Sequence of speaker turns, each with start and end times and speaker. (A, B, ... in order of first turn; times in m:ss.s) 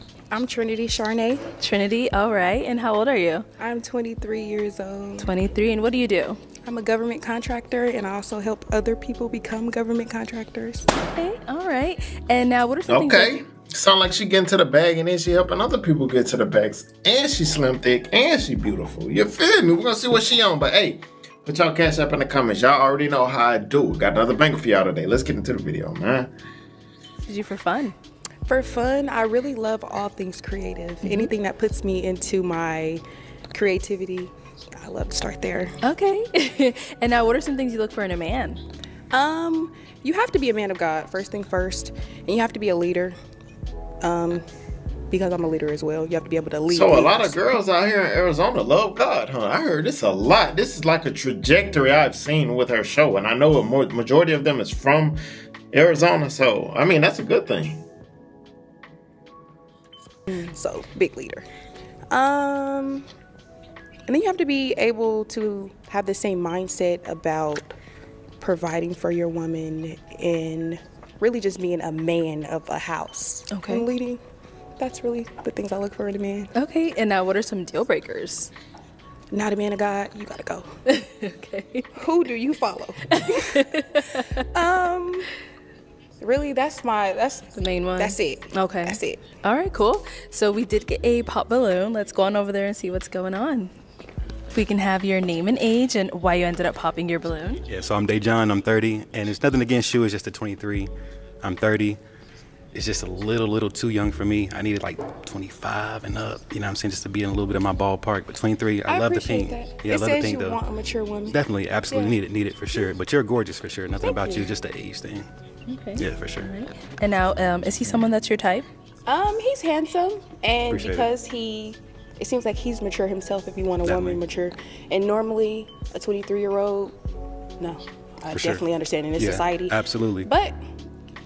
0:00.3-0:01.4 A
0:01.5-0:03.4 B
0:03.6-0:05.3 A
0:05.2-0:06.4 B
0:06.6-0:10.9 A
0:11.1-0:13.3 B
0:12.9-0:26.3 C
0:27.2-0:27.9 B
0:28.4-0:33.0 A
0:33.5-0:35.7 A
0:35.8-0:38.6 B
0:39.1-0:43.2 A
0:44.0-0:44.4 A
0:45.1-0:47.4 A
0:46.7-0:55.2 C
0:55.7-0:57.8 C
1:00.3-1:01.4 A
1:02.1-1:03.0 A
1:04.1-1:07.7 A
1:08.4-1:14.2 A
1:13.5-1:13.8 B
1:14.8-1:16.5 A
1:16.5-1:18.5 B
1:19.3-1:20.7 A
1:20.9-1:21.9 B
1:22.0-1:23.4 A
1:23.2-1:24.3 B
1:24.5-1:25.3 A
1:26.2-1:29.2 A
1:27.5-1:33.7 B
1:34.5-1:37.6 B
1:37.7-1:40.9 D
1:41.4-1:42.0 D
1:42.7-1:50.6 D
1:48.8-1:52.2 A
1:51.3-1:55.3 D
1:54.0-1:54.5 A
1:55.7-1:58.7 B
1:56.0-1:56.5 D
1:59.0-2:06.9 A
2:00.7-2:01.1 D
2:03.8-2:04.2 D
2:07.6-2:10.6 A
2:08.3-2:08.6 D
2:09.2-2:10.3 D